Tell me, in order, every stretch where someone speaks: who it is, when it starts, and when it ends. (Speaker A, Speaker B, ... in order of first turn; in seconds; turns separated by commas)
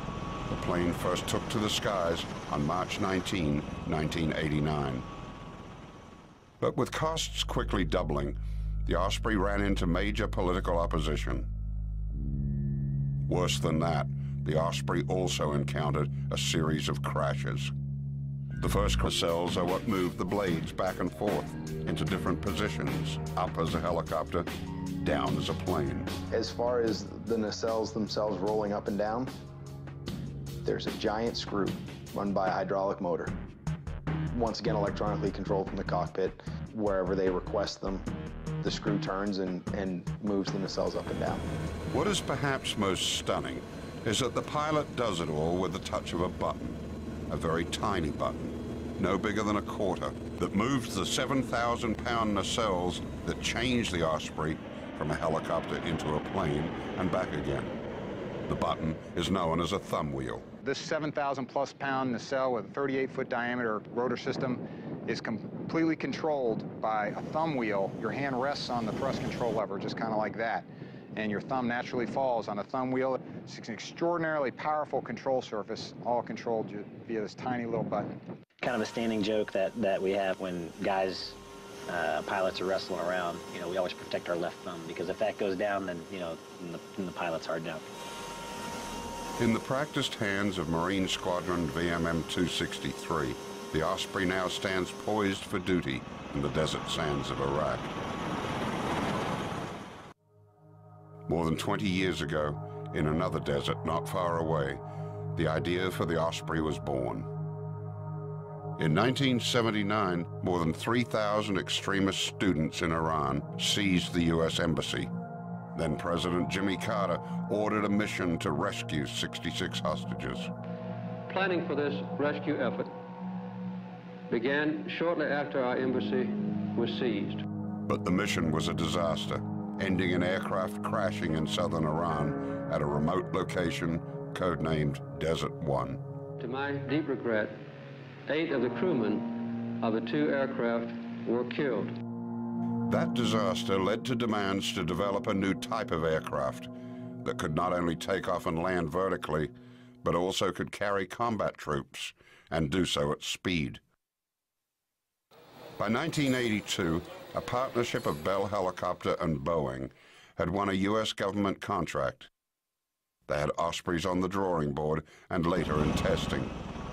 Speaker A: 0.5-5.1, Speaker A: 6.6-11.5, Speaker A: 13.3-17.7, Speaker A: 18.6-24.5, Speaker A: 25.0-26.1, Speaker B: 26.3-29.3, Speaker B: 30.6-33.3, Speaker B: 34.3-38.1, Speaker B: 38.6-41.4, Speaker A: 41.9-57.8, Speaker A: 58.5-60.5, Speaker C: 60.6-78.1, Speaker D: 78.6-81.4, Speaker D: 81.9-87.8, Speaker A: 89.4-97.9, Speaker A: 101.3-104.8, Speaker A: 105.3-107.3, Speaker A: 108.8-115.1, Speaker A: 115.7-120.5, Speaker E: 121.3-122.9, Speaker E: 124.3-127.4, Speaker A: 127.9-136.0, Speaker E: 136.4-137.6, Speaker E: 138.3-142.0, Speaker A: 142.8-153.8, Speaker A: 155.8-162.3, Speaker A: 163.3-166.5